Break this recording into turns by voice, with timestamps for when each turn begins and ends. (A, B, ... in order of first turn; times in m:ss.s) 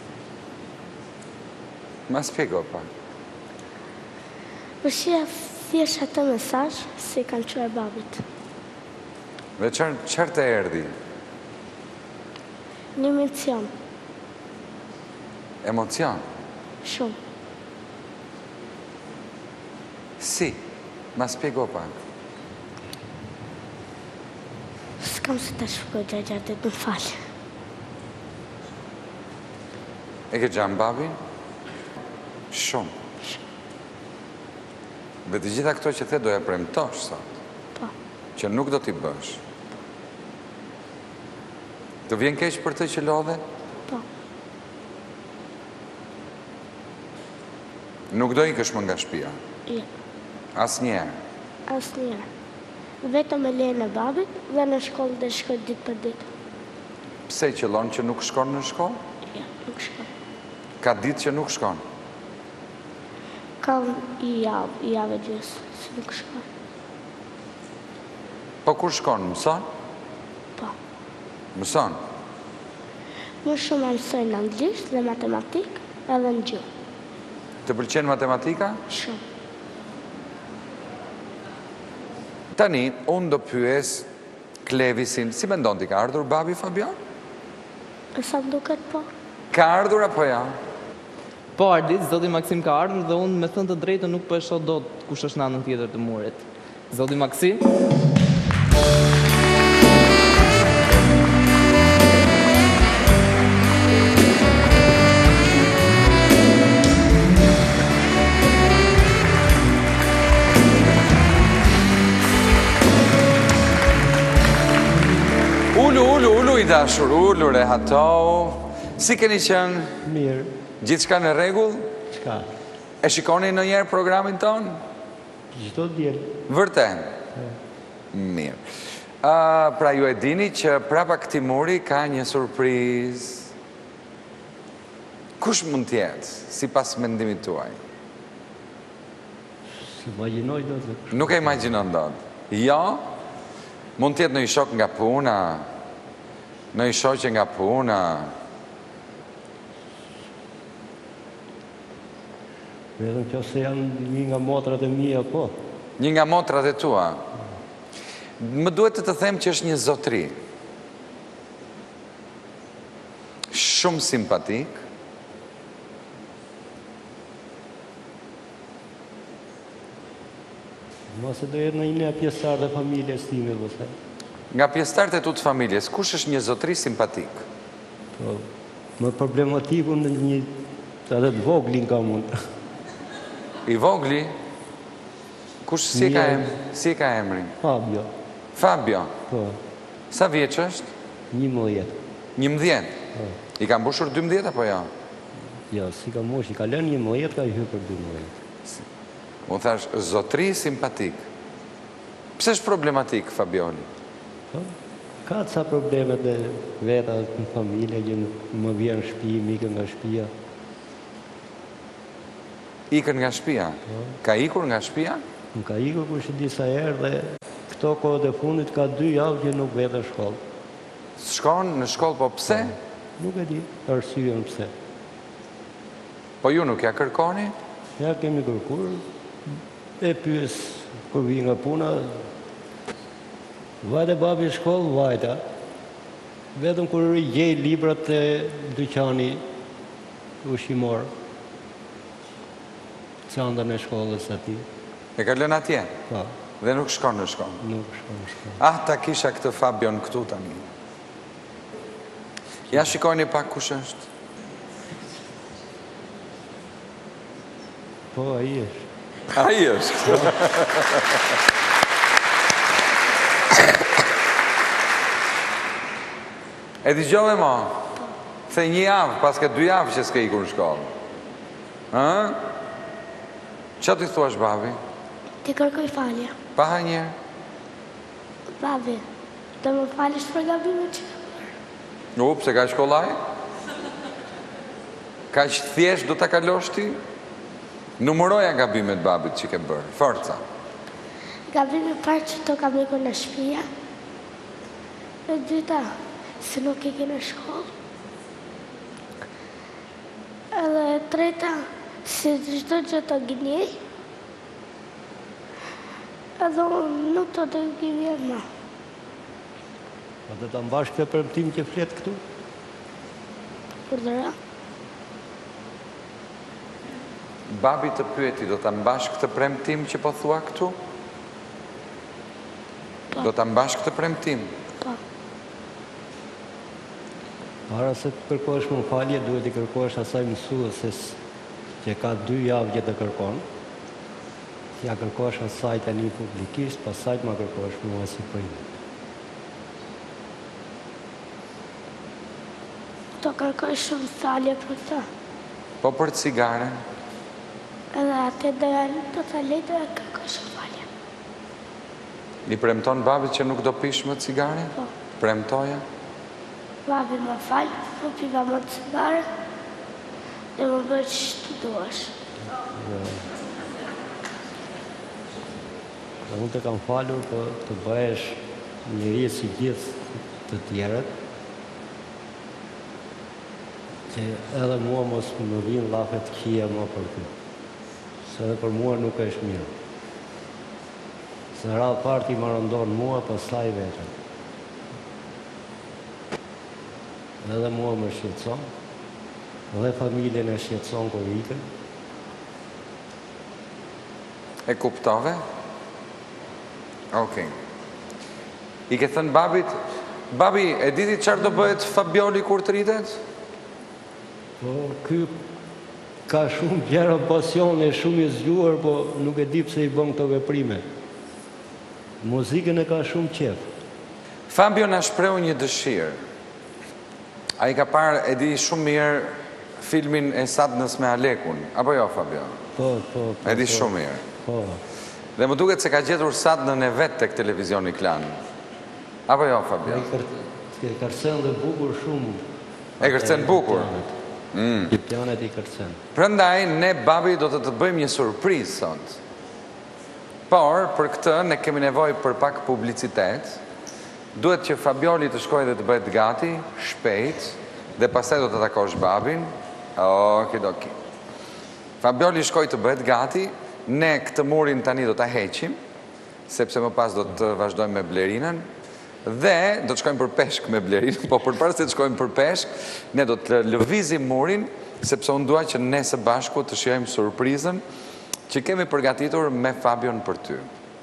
0:02.1-0:02.9 A
0:04.8-0:08.2 B
0:09.6-0:11.0 A
0:13.0-0:13.7 B
0:15.6-0:16.2 A
0:16.8-0:17.2 B
0:20.2-0:20.6 A
0:21.2-0:22.0 A
0:25.0-0:27.2 B
0:30.3-0:31.2 A
0:32.5-0:32.9 A
0:35.3-0:37.4 A
0:38.4-0:39.4 A
0:42.1-0:43.4 A
0:48.1-0:49.4 A
0:50.6-0:51.2 A
0:51.7-0:52.3 B
0:53.0-0:56.3 B
0:57.3-0:59.0 A
0:59.3-1:00.1 B
1:00.8-1:01.8 A
1:03.6-1:06.5 B
1:08.6-1:09.7 A
1:11.6-1:12.0 A
1:13.4-1:16.7 B
1:17.6-1:18.8 A
1:18.9-1:19.2 B
1:22.5-1:24.1 A
1:24.7-1:27.0 A
1:28.2-1:29.1 B
1:29.5-1:30.6 A
1:31.6-1:37.6 C
1:55.7-2:00.0 A
2:00.0-2:00.5 D
2:00.8-2:01.9 A
2:02.1-2:02.5 D
2:03.0-2:04.8 A
2:05.5-2:06.4 D
2:06.5-2:07.2 A
2:08.1-2:08.6 A
2:09.2-2:13.5 A
2:15.4-2:17.8 A
2:19.7-2:21.7 D
2:21.1-2:23.0 A
2:24.0-2:25.7 A
2:26.7-2:28.3 A
2:33.0-2:35.6 D
2:36.0-2:37.2 A
2:38.4-2:40.4 A
2:43.5-2:44.8 A
2:51.1-2:53.9 D
2:54.5-2:57.4 A
2:58.2-3:02.3 D
3:03.7-3:04.3 A
3:05.6-3:07.5 A
3:05.9-3:06.6 D
3:07.6-3:08.1 D
3:08.6-3:09.1 A
3:09.3-3:09.6 D
3:10.1-3:10.9 A
3:11.3-3:12.0 D
3:12.4-3:13.0 A
3:13.6-3:14.9 A
3:15.7-3:18.3 D
3:19.5-3:21.2 A
3:22.4-3:23.9 A
3:24.5-3:30.3 D
3:32.9-3:35.2 A
3:33.9-3:34.2 D
3:35.6-3:40.4 D
3:41.2-3:42.8 A
3:43.2-3:44.7 D
3:46.4-3:47.6 A
3:48.0-3:49.0 D
3:50.0-3:52.3 D
3:53.8-3:55.4 D
3:56.6-3:59.4 D
4:00.4-4:01.1 D
4:03.3-4:04.6 D
4:05.2-4:05.9 A
4:06.6-4:07.6 A
4:07.6-4:08.6 D
4:08.6-4:10.7 A
4:12.7-4:14.0 A
4:18.1-4:18.9 D
4:19.3-4:21.2 A
4:20.1-4:20.3 D
4:26.8-4:27.8 A
4:28.5-4:30.9 A
4:31.9-4:32.4 A
4:33.8-4:34.8 A
4:35.4-4:36.3 B
4:36.6-4:37.2 A
4:38.6-4:39.0 B
4:39.6-4:41.4 B
4:42.2-4:43.2 A
4:45.3-4:47.0 A
4:48.0-4:50.4 A
4:51.5-4:53.7 B
4:55.3-4:57.7 B
5:00.6-5:03.8 B
5:06.4-5:08.4 B
5:10.3-5:12.2 D
5:13.9-5:14.4 B
5:17.5-5:20.8 A
5:23.2-5:24.5 A
5:27.7-5:31.2 D
5:31.8-5:33.4 D
5:34.8-5:38.6 D
5:43.2-5:45.1 B
5:45.8-5:46.8 A
5:47.9-5:50.9 B
5:52.5-5:55.8 A
5:56.9-5:59.3 B
6:00.6-6:02.1 B
6:02.7-6:03.3 D
6:06.3-6:11.1 D
6:14.1-6:17.3 D
6:18.2-6:19.7 D
6:21.5-6:24.1 D
6:27.4-6:28.7 D
6:29.7-6:31.6 D
6:34.7-6:35.4 A
6:37.1-6:37.6 A
6:38.9-6:39.8 A
6:40.3-6:43.2 A
6:44.6-6:45.3 D
6:46.3-6:50.8 D
6:52.2-6:53.7 D
6:54.5-6:56.2 A
6:57.6-7:02.6 A
7:02.8-7:04.8 D
7:03.4-7:04.2 A
7:05.4-7:08.4 A
7:09.3-7:10.1 A
7:09.8-7:12.4 D
7:13.0-7:13.9 A
7:13.0-7:14.1 D
7:14.5-7:14.9 A
7:14.9-7:16.0 D
7:16.2-7:19.2 A
7:20.5-7:23.6 A
7:24.4-7:31.0 A
7:32.0-7:35.8 A
7:36.5-7:38.7 A
7:39.2-7:47.8 A
7:48.5-7:50.7 A